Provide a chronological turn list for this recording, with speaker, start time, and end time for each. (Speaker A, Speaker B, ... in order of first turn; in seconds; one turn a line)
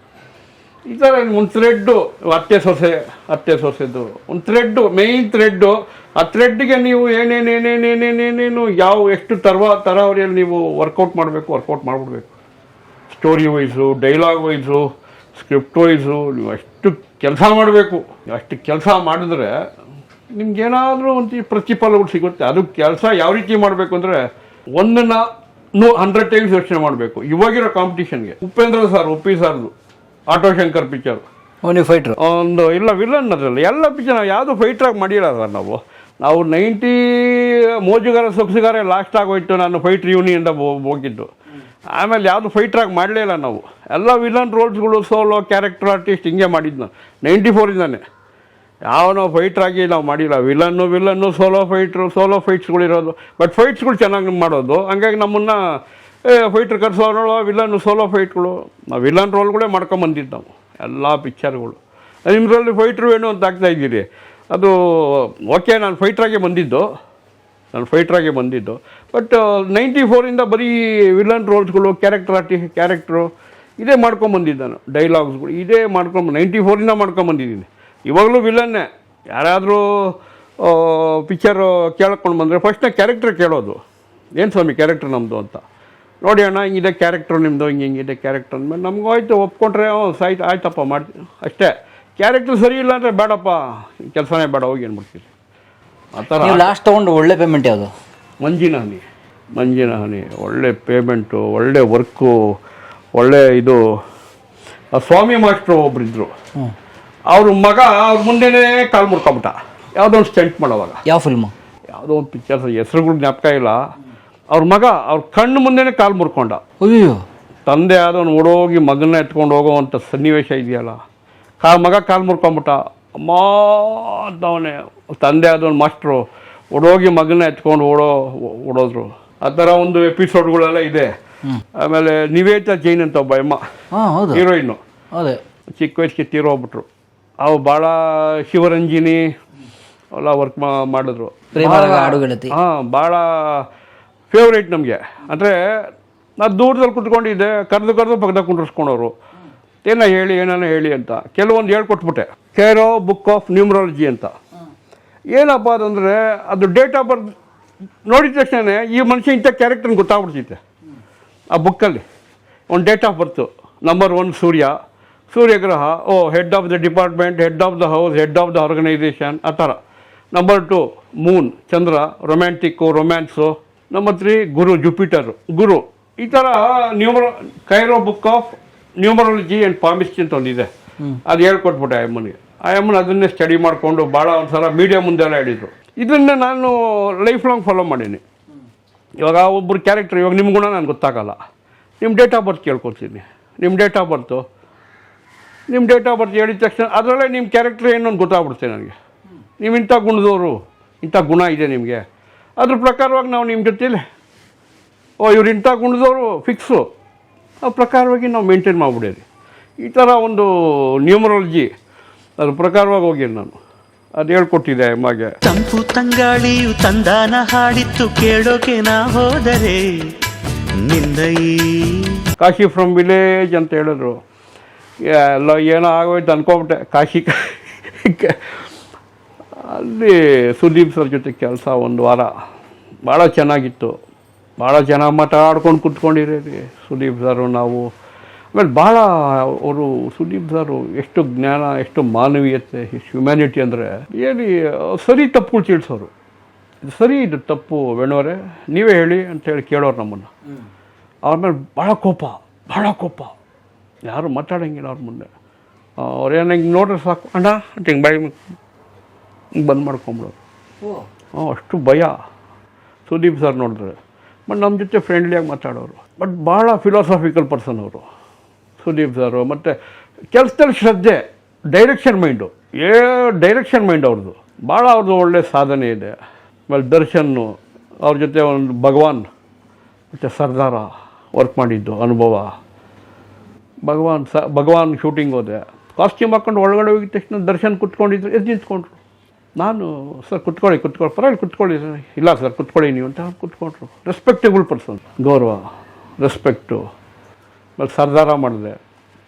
Speaker A: 0.9-12.3
Speaker A: 13.1-19.6
Speaker A: 20.4-24.2
Speaker A: 24.8-29.7
Speaker A: 30.3-31.2
Speaker B: 31.6-32.2
Speaker A: 32.2-41.3
Speaker A: 41.9-48.0
Speaker A: 48.9-55.6
Speaker A: 56.3-66.9
Speaker A: 67.7-83.8
Speaker A: 84.4-85.6
Speaker A: 86.2-95.3
Speaker A: 96.2-96.7
Speaker B: 96.4-97.9
Speaker A: 98.4-99.0
Speaker A: 99.6-102.5
Speaker A: 103.2-103.8
Speaker A: 104.9-106.3
Speaker A: 107.3-111.0
Speaker B: 111.1-111.5
Speaker A: 111.9-113.8
Speaker A: 114.5-116.6
Speaker B: 116.8-117.2
Speaker A: 117.7-121.0
Speaker A: 121.6-131.1
Speaker A: 131.8-133.6
Speaker B: 133.9-134.4
Speaker A: 134.3-134.8
Speaker B: 135.1-135.4
Speaker A: 135.8-136.9
Speaker A: 137.4-139.3
Speaker A: 140.2-143.7
Speaker B: 141.5-142.5
Speaker A: 144.3-145.9
Speaker A: 146.4-149.2
Speaker A: 149.8-154.3
Speaker A: 155.3-157.3
Speaker A: 158.1-160.6
Speaker A: 161.5-162.0
Speaker A: 162.7-164.7
Speaker A: 165.3-169.8
Speaker A: 170.3-180.7
Speaker A: 181.3-188.2
Speaker A: 189.2-191.4
Speaker A: 192.0-194.4
Speaker A: 195.7-198.9
Speaker A: 199.6-202.0
Speaker A: 202.6-204.0
Speaker A: 205.2-206.9
Speaker A: 207.6-209.2
Speaker A: 209.8-210.5
Speaker A: 211.1-211.7
Speaker A: 212.4-213.6
Speaker A: 214.2-215.3
Speaker C: 215.4-219.8
Speaker C: 220.8-222.1
Speaker A: 222.4-224.2
Speaker A: 225.0-228.4
Speaker A: 229.6-232.3
Speaker A: 233.1-233.9
Speaker A: 234.6-237.9
Speaker A: 238.5-246.1
Speaker A: 246.8-250.3
Speaker A: 251.3-253.3
Speaker A: 254.1-255.3
Speaker A: 256.0-258.4
Speaker A: 259.6-260.4
Speaker A: 261.4-262.1
Speaker A: 263.1-264.0
Speaker A: 264.5-268.1
Speaker A: 268.8-269.8
Speaker A: 270.3-276.1
Speaker A: 276.7-279.3
Speaker A: 280.1-282.5
Speaker A: 283.9-288.9
Speaker A: 289.6-295.6
Speaker A: 296.2-296.8
Speaker A: 297.8-298.8